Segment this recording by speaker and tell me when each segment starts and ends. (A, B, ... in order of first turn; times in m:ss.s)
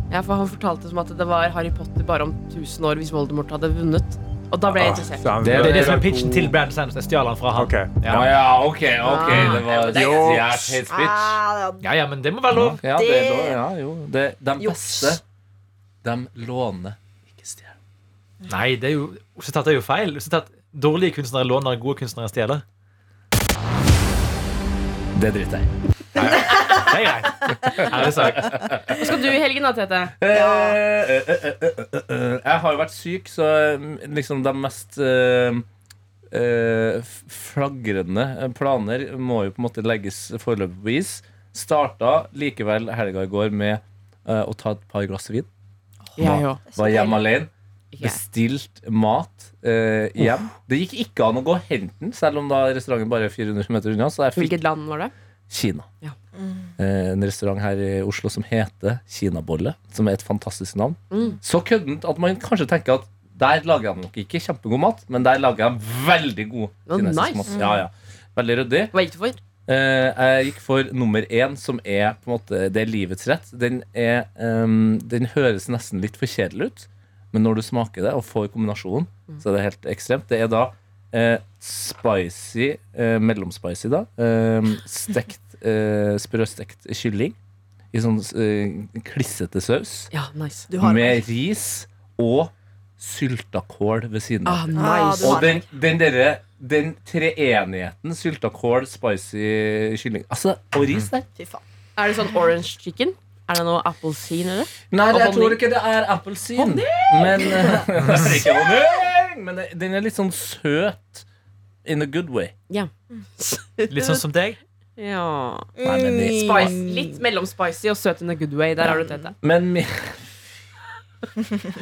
0:00.1-0:05.3 A
0:04.7-0:06.6 B
0:05.4-0:06.0 C
0:05.4-0:08.3 D
0:07.5-0:08.2 B
0:08.1-0:11.4 C
0:09.0-0:10.2 A
0:09.3-0:10.8 B
0:09.8-0:11.9 E
0:11.8-0:12.8 D
0:12.5-0:15.2 C
0:12.8-0:13.6 E
0:14.6-0:15.2 E
0:16.0-0:17.7 C
0:18.5-0:22.6 D
0:25.1-0:25.7 C
0:26.1-0:28.6 D
0:27.6-0:29.1 C
0:28.9-0:30.1 A
0:30.2-0:35.6 C
0:30.3-0:30.8 E
0:36.3-0:45.5 C
0:46.2-0:46.6 A
0:46.2-0:47.5 C
0:46.6-0:47.2 E
0:47.9-0:48.2 A
0:48.0-0:54.6 C
0:54.4-0:55.1 A
0:55.5-0:55.9 C
0:56.4-0:56.7 E
0:56.8-1:08.9 C
1:01.1-1:01.4 A
1:06.9-1:07.5 A
1:07.5-1:07.8 E
1:08.9-1:09.4 A
1:09.7-1:27.4 C
1:27.9-1:30.1 C
1:30.1-1:30.7 A
1:30.7-1:31.2 E
1:30.8-1:41.2 C
1:34.4-1:35.6 A
1:34.8-1:35.6 E
1:41.4-1:41.6 E
1:42.0-1:45.6 A
1:44.9-1:51.2 C
1:46.6-1:47.7 A
1:51.8-1:52.5 C
1:52.7-1:54.2 A
1:53.9-1:54.6 D
1:55.0-1:55.7 A
1:55.8-1:57.1 E
1:55.8-1:56.8 C
1:56.3-1:59.3 A
1:59.4-2:00.2 C